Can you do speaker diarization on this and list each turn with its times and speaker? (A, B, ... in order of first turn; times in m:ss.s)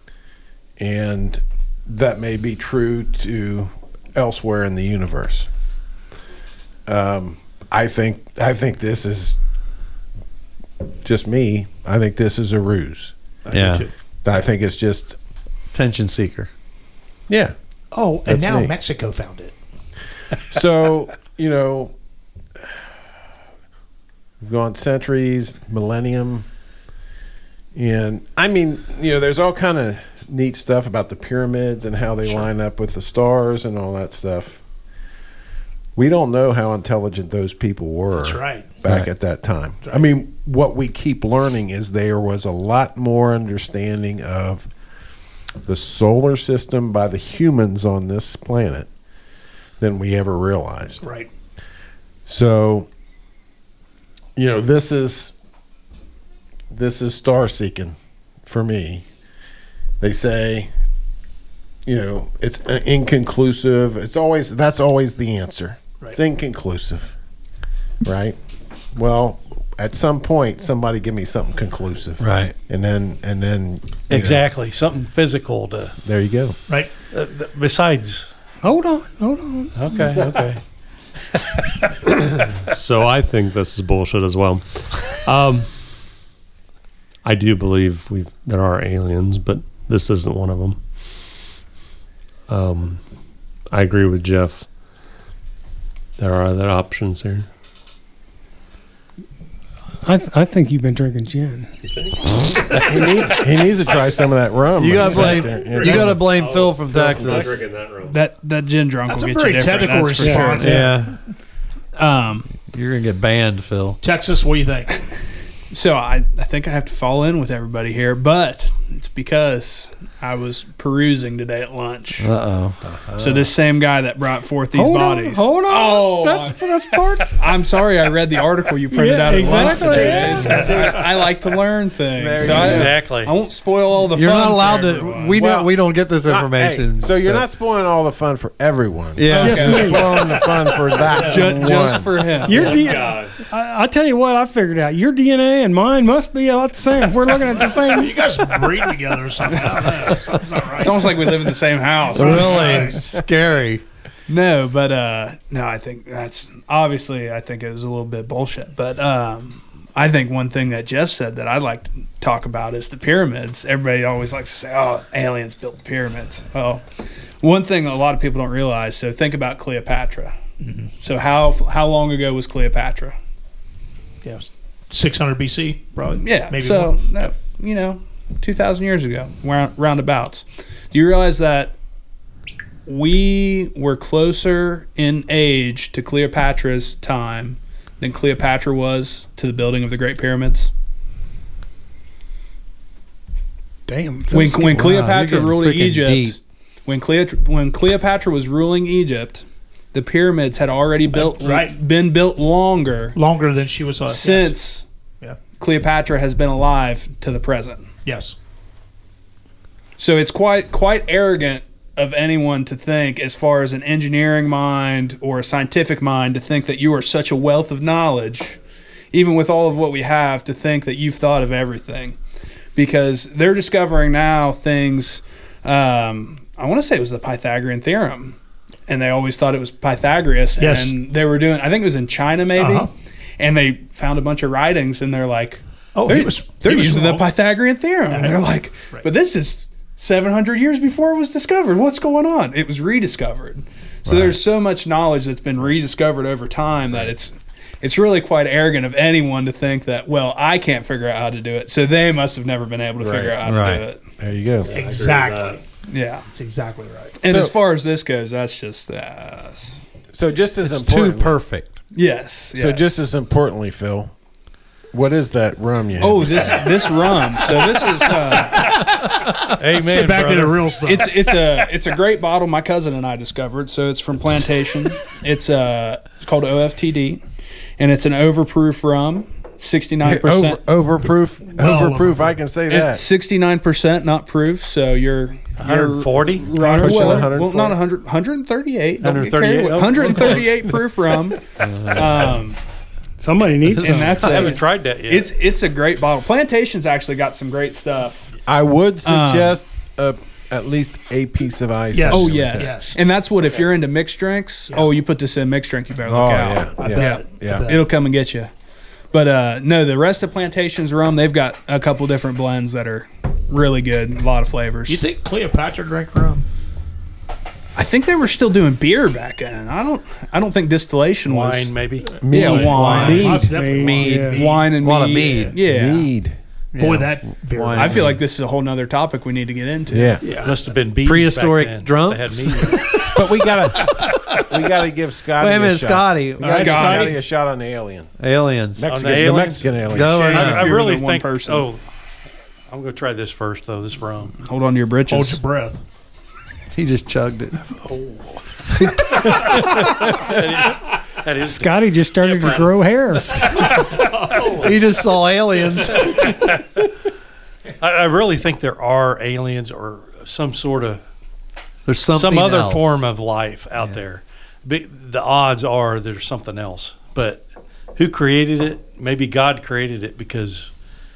0:00.8-0:05.5 A
0:06.9-0:09.4 A
0:11.0-0:13.1 A
0:13.4-0:13.9 B
0:13.5-0:13.8 C
0:14.2-0:15.2 A
0:15.7-0:16.5 C
0:17.3-0:17.6 A
0:17.9-0:19.6 B
0:18.3-0:18.7 A
0:20.5-0:21.9 A
0:24.4-0:26.5 A
0:27.8-0:34.6 A
0:36.0-0:44.7 A
0:38.1-0:38.8 B
0:39.8-0:40.1 B
0:45.7-0:48.9 A
0:49.8-0:51.0 A
0:51.0-0:51.3 B
0:52.3-0:52.9 A
0:54.4-0:55.3 A
0:56.7-0:59.1 A
1:00.0-1:00.7 A
1:01.9-1:07.2 A
1:08.0-1:08.4 A
1:08.9-1:14.5 A
1:12.2-1:12.5 C
1:14.1-1:16.0 D
1:16.0-1:16.6 A
1:17.1-1:18.3 D
1:18.6-1:20.2 E
1:19.8-1:20.5 D
1:22.6-1:25.7 F
1:27.2-1:30.8 F
1:32.5-1:33.0 F
1:33.7-1:34.7 F
1:36.2-1:37.5 F
1:40.0-1:41.7 E
1:42.7-1:46.4 A
1:44.8-1:47.6 C
1:45.2-1:48.2 F
1:47.2-1:47.5 A
1:48.1-1:51.0 G
1:49.1-1:51.0 B
1:50.2-1:50.6 E
1:50.6-1:51.2 C
1:52.0-1:52.5 G
1:52.6-1:54.0 C
1:54.0-1:55.0 B
1:55.7-2:02.3 G
2:02.2-2:02.8 C
2:03.1-2:03.4 A
2:03.2-2:06.6 G
2:04.8-2:07.3 E
2:07.4-2:15.4 G
2:08.9-2:10.7 E
2:09.3-2:10.6 C
2:09.4-2:11.3 A
2:10.5-2:10.8 B
2:12.1-2:13.0 A
2:12.5-2:13.4 D
2:14.1-2:17.4 C
2:15.4-2:22.3 A
2:19.2-2:20.0 C
2:19.3-2:20.3 G
2:19.3-2:20.2 E
2:21.0-2:21.6 F
2:21.2-2:22.8 G
2:22.4-2:28.2 E
2:22.6-2:23.3 F
2:27.9-2:31.4 B
2:30.8-2:33.0 G
2:32.2-2:33.1 B
2:32.2-2:33.8 C
2:34.3-2:46.8 G
2:47.4-2:50.4 G
2:50.6-2:50.9 B
2:51.0-2:53.2 G
2:54.2-2:57.1 B
2:56.2-3:01.8 G
3:02.9-3:10.7 G
3:13.9-3:14.8 E
3:14.3-3:23.2 G
3:14.4-3:16.4 C
3:21.1-3:21.8 B
3:23.2-3:24.6 B
3:24.1-3:24.8 G
3:25.6-3:27.9 G
3:28.0-3:28.4 B
3:30.0-3:38.6 G
3:39.1-3:42.2 G
3:42.8-4:14.0 G
3:50.6-3:51.0 B
3:52.6-3:52.9 B
3:56.0-3:57.3 B
3:58.1-3:59.1 B
4:04.1-4:04.4 A
4:13.0-4:13.4 A
4:13.4-4:13.8 C
4:14.2-4:14.8 A
4:14.6-4:15.6 F
4:14.7-4:15.6 B
4:15.9-4:16.2 G
4:16.3-4:17.2 B
4:17.2-4:19.8 G
4:17.2-4:17.5 A
4:20.1-4:21.4 A
4:20.6-4:21.8 C
4:21.9-4:22.8 G
4:22.6-4:24.1 A
4:24.9-4:26.9 A
4:26.0-4:28.8 G
4:28.4-4:31.4 B
4:29.6-4:30.7 D
4:30.8-4:37.2 G
4:37.8-4:40.6 G
4:40.0-4:43.0 A
4:41.5-4:42.4 B
4:42.7-4:52.6 G
4:45.6-4:46.5 D
4:46.6-4:47.8 A
4:49.0-4:50.5 D
4:53.2-4:54.4 E
4:53.8-4:58.3 G
4:53.8-4:55.3 D
4:58.5-5:02.8 A
4:59.0-4:59.6 G
5:01.9-5:03.0 B
5:02.1-5:08.5 G
5:06.0-5:07.8 A
5:06.8-5:07.8 B
5:09.1-5:15.0 G
5:14.9-5:16.5 B
5:17.8-5:23.4 G
5:21.3-5:22.3 D
5:22.2-5:23.5 A
5:22.6-5:24.7 B
5:22.8-5:23.2 C
5:22.9-5:24.4 E
5:23.7-5:25.6 C
5:24.3-5:26.1 G
5:25.6-5:26.4 A
5:26.7-5:28.1 C
5:26.8-5:28.1 B
5:27.7-5:30.2 G
5:29.9-5:30.2 A
5:30.2-5:30.5 B
5:30.2-5:33.1 D
5:31.0-5:32.9 C
5:33.0-5:38.1 A
5:35.4-5:37.0 C
5:36.4-5:37.1 B
5:36.5-5:37.1 G
5:38.2-5:39.3 C
5:38.8-5:40.4 A
5:38.9-5:41.8 D
5:39.9-5:40.8 C
5:40.1-5:41.7 G
5:42.7-5:44.4 D
5:44.4-5:45.4 G
5:45.1-5:45.8 B
5:46.7-5:47.6 C
5:47.8-5:52.7 D
5:51.5-5:53.6 E
5:53.3-5:54.6 D
5:54.5-5:56.3 C
5:56.0-5:56.5 D
5:57.8-6:01.0 D
6:01.9-6:03.0 C
6:02.1-6:07.4 D
6:08.0-6:10.7 D